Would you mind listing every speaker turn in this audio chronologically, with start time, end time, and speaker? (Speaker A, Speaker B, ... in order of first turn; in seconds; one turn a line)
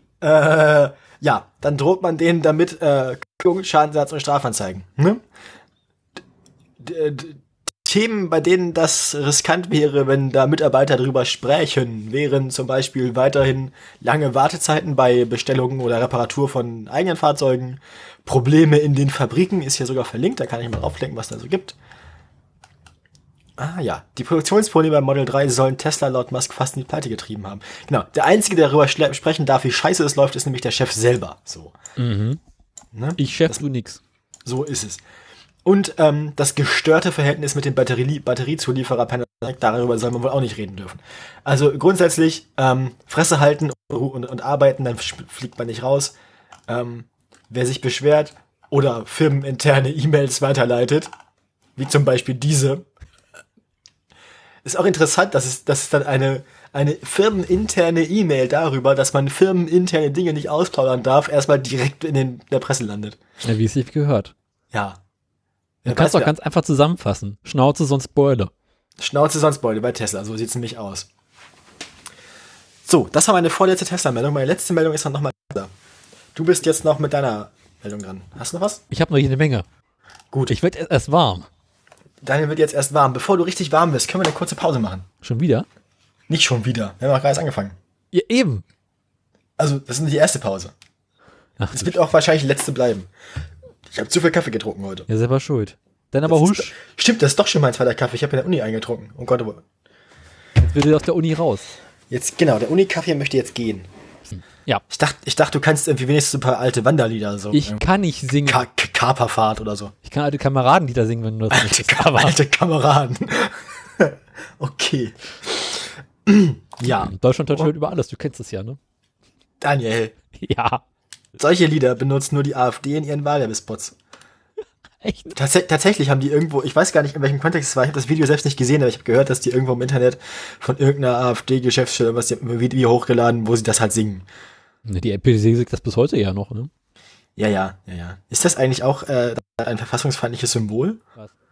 Speaker A: 0.2-5.2
Speaker A: 6.8-21.8
Speaker A: 23.6-31.8
Speaker B: 32.0-32.4
Speaker A: 32.9-33.6
Speaker B: 33.2-34.0
Speaker A: 34.5-35.0
Speaker A: 35.6-46.2
Speaker A: 46.7-51.1
Speaker A: 51.8-52.9
Speaker A: 54.6-63.2
Speaker B: 63.4-64.3
Speaker A: 64.7-65.0
Speaker A: 65.8-66.3
Speaker B: 65.9-68.5
Speaker A: 69.0-71.1
Speaker A: 72.8-75.7
Speaker A: 76.3-78.8
Speaker B: 78.9-79.7
Speaker B: 80.5-81.5
Speaker A: 82.2-85.1
Speaker B: 85.2-85.7
Speaker A: 86.3-87.8
Speaker B: 88.1-88.6
Speaker A: 89.6-90.7
Speaker B: 91.6-92.0
Speaker A: 91.7-93.1
Speaker A: 93.9-95.1
Speaker B: 95.1-96.7
Speaker A: 96.3-99.6
Speaker B: 100.6-101.7
Speaker A: 102.1-103.9
Speaker B: 104.3-104.8
Speaker A: 104.9-107.8
Speaker B: 107.5-108.7
Speaker A: 108.5-109.9
Speaker B: 110.0-112.4
Speaker A: 111.5-117.7
Speaker B: 116.8-118.8
Speaker A: 119.6-120.1
Speaker B: 120.3-120.8
Speaker A: 121.4-124.0
Speaker B: 125.0-125.4
Speaker A: 125.3-134.3
Speaker B: 134.9-136.7
Speaker A: 137.4-141.0